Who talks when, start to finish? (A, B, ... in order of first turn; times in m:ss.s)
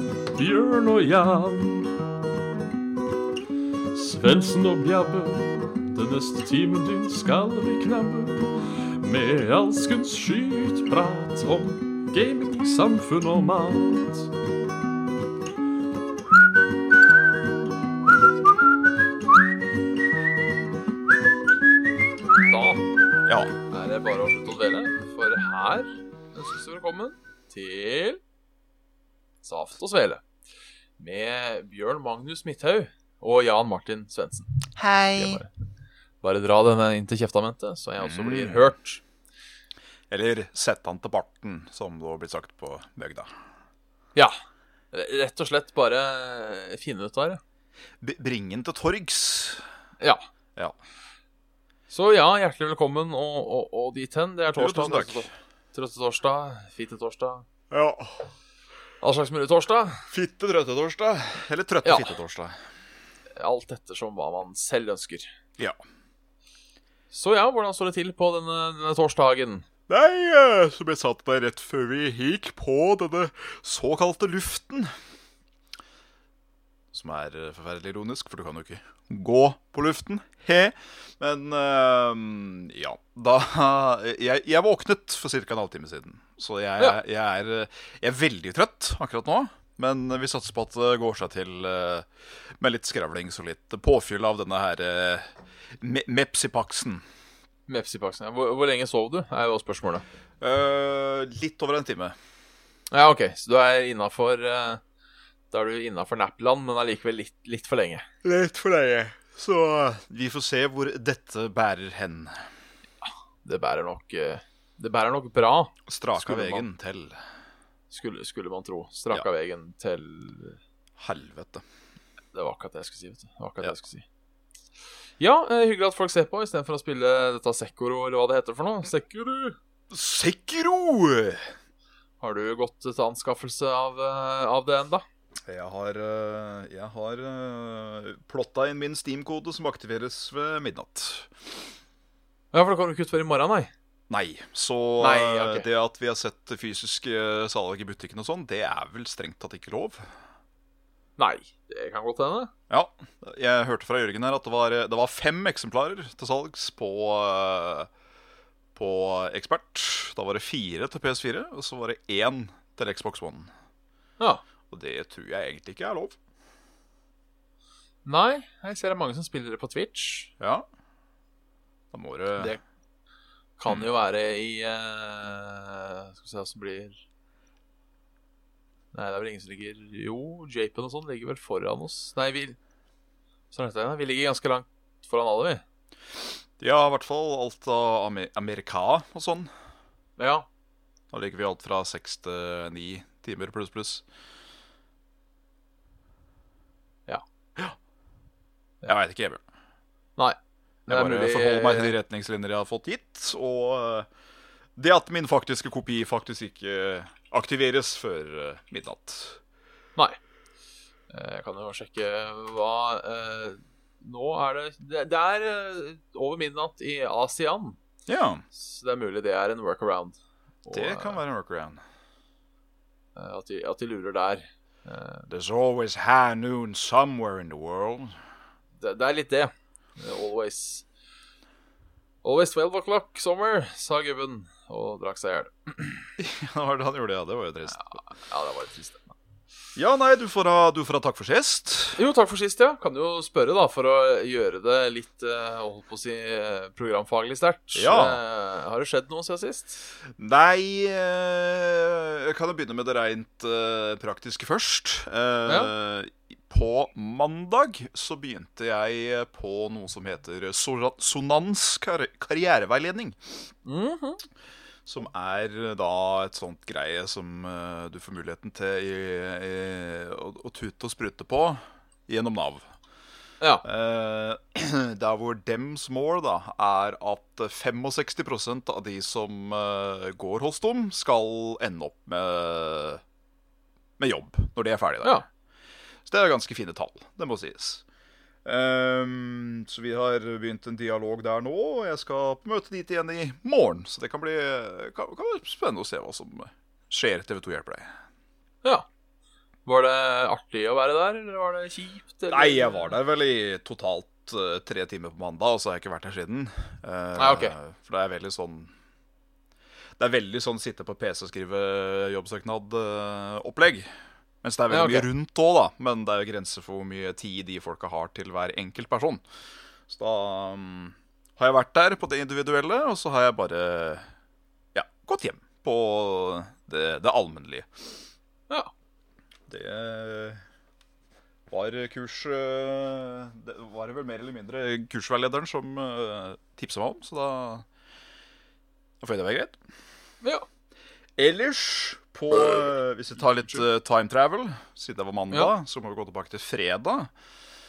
0:00.4-0:01.0 A
0:00.4-0:01.8 B
0:04.0-0:08.4 B
0:06.1-0:06.7 A
0:07.8-0:08.0 A
0:09.0-0:14.0 B
0:12.6-0:13.6 A
0:22.4-0:22.8 A
0:23.3-0:23.5 C
0:23.7-0:28.2 A
0:29.4-0:30.2 A
0:31.0-0:35.5 A
0:34.8-0:35.4 C
0:36.2-0:39.0 A
0:38.0-0:38.7 C
0:40.1-0:43.3 C
0:44.9-0:47.4 A
0:48.0-0:49.6 C
0:51.9-0:57.5 A
0:54.6-0:55.3 C
0:57.7-0:58.3 C
0:59.0-1:00.1 A
1:00.1-1:02.6 C
1:01.8-1:02.1 A
1:03.4-1:05.3 A
1:07.1-1:09.7 A
1:09.9-1:14.9 C
1:16.9-1:37.0 C
1:37.7-1:40.0 A
1:40.4-1:42.2 C
1:42.9-1:44.8 A
1:45.5-1:48.1 A
1:48.2-1:52.5 C
1:53.4-1:56.7 A
1:55.9-1:57.2 C
1:57.9-2:00.6 A
2:01.0-2:01.6 C
2:02.3-2:04.0 A
2:05.2-2:09.6 A
2:09.9-2:11.5 C
2:12.2-2:15.0 A
2:15.5-2:21.4 C
2:22.5-2:23.7 A
2:24.1-2:30.1 C
2:25.0-2:25.7 A
2:31.2-2:32.5 A
2:32.7-2:37.9 C
2:38.8-2:43.5 C
2:44.7-2:46.2 C
2:48.0-2:50.3 A
2:50.4-2:50.6 C
2:51.9-2:52.6 C
2:53.6-2:57.0 A
2:58.9-3:02.6 A
3:03.5-3:05.6 A
3:06.6-3:09.5 C
3:10.2-3:10.5 A
3:11.1-3:14.0 C
3:18.9-3:19.4 C
3:20.2-3:22.0 A
3:20.9-3:24.1 C
3:24.8-3:29.4 C
3:31.1-3:37.8 A
3:38.1-3:38.4 C
3:38.5-3:41.2 A
3:40.7-3:41.8 C
3:43.2-3:45.3 A
3:45.3-3:48.2 C
3:48.8-3:50.9 A
3:52.2-3:56.1 A
3:56.2-3:57.8 C
3:57.7-3:59.2 A
3:59.8-4:02.0 C
4:02.0-4:09.9 A
4:07.8-4:08.2 C
4:10.2-4:23.2 C
4:15.5-4:15.7 A
4:23.6-4:24.2 A
4:24.9-4:32.7 C
4:33.6-4:43.0 C
4:44.0-4:45.2 C
4:46.1-4:47.8 C
4:48.4-4:57.9 C
4:59.7-5:03.0 A
5:02.3-5:08.7 C
5:07.2-5:07.6 A
5:10.0-5:13.9 C
5:14.4-5:19.2 C
5:14.7-5:15.1 A
5:19.9-5:24.1 C
5:24.7-5:27.8 C
5:29.5-5:30.4 C
5:31.5-5:37.7 C
5:39.0-5:39.6 C
5:41.2-5:47.1 C
5:42.3-5:42.8 A